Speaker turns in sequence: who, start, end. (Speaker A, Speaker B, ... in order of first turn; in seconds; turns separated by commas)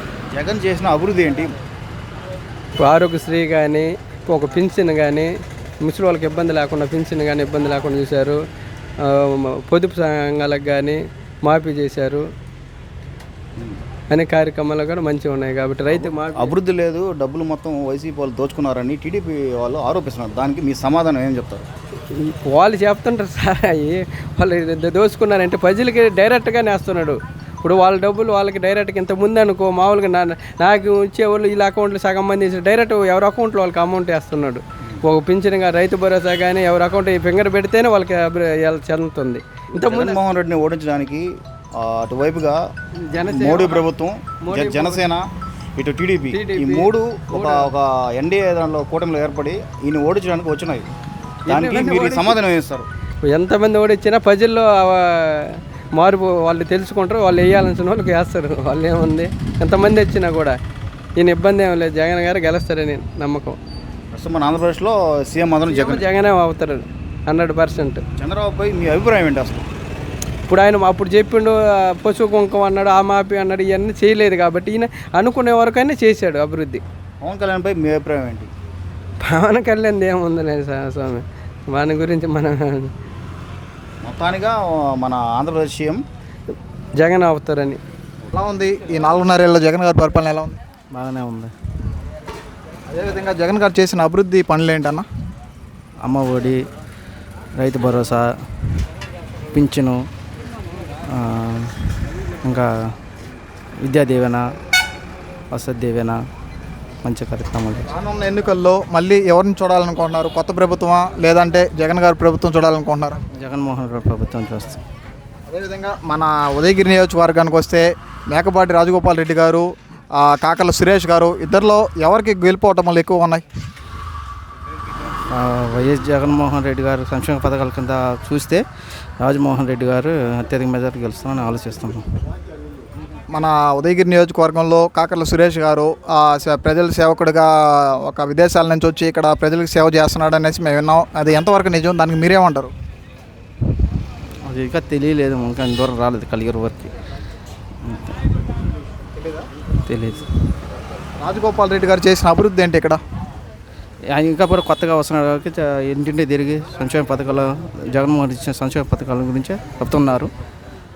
Speaker A: 0.3-1.5, Speaker B: 2.8-5.3, Speaker B: 5.8-8.4, Speaker B: 9.0-12.2, Speaker B: 14.1-16.5, Speaker A: 15.9-21.6, Speaker B: 22.1-40.2, Speaker A: 39.8-41.2, Speaker A: 41.8-42.6, Speaker B: 43.1-43.8, Speaker A: 43.2-50.9, Speaker B: 44.4-45.1, Speaker B: 46.3-47.7, Speaker A: 51.5-52.9, Speaker B: 51.5-52.4, Speaker B: 53.3-60.5, Speaker B: 61.2-63.6, Speaker A: 64.1-66.0, Speaker B: 65.7-68.0, Speaker A: 68.2-69.7, Speaker B: 70.5-76.8, Speaker A: 77.2-78.5, Speaker B: 79.2-82.9, Speaker A: 84.0-86.0, Speaker B: 87.0-87.8, Speaker C: 88.3-90.6, Speaker D: 90.9-91.5, Speaker C: 92.9-95.0, Speaker D: 96.0-96.6, Speaker D: 97.6-98.3, Speaker D: 99.5-100.0, Speaker D: 101.1-101.9, Speaker D: 102.4-102.7, Speaker D: 103.8-104.4, Speaker D: 105.5-106.2, Speaker D: 107.0-107.9, Speaker C: 107.9-113.2, Speaker D: 113.3-114.8, Speaker C: 115.5-123.5, Speaker D: 125.3-128.6, Speaker D: 129.2-132.0, Speaker C: 133.3-142.7, Speaker D: 144.4-146.9, Speaker D: 147.8-148.2, Speaker D: 149.9-150.2, Speaker C: 151.2-153.0, Speaker D: 154.1-160.3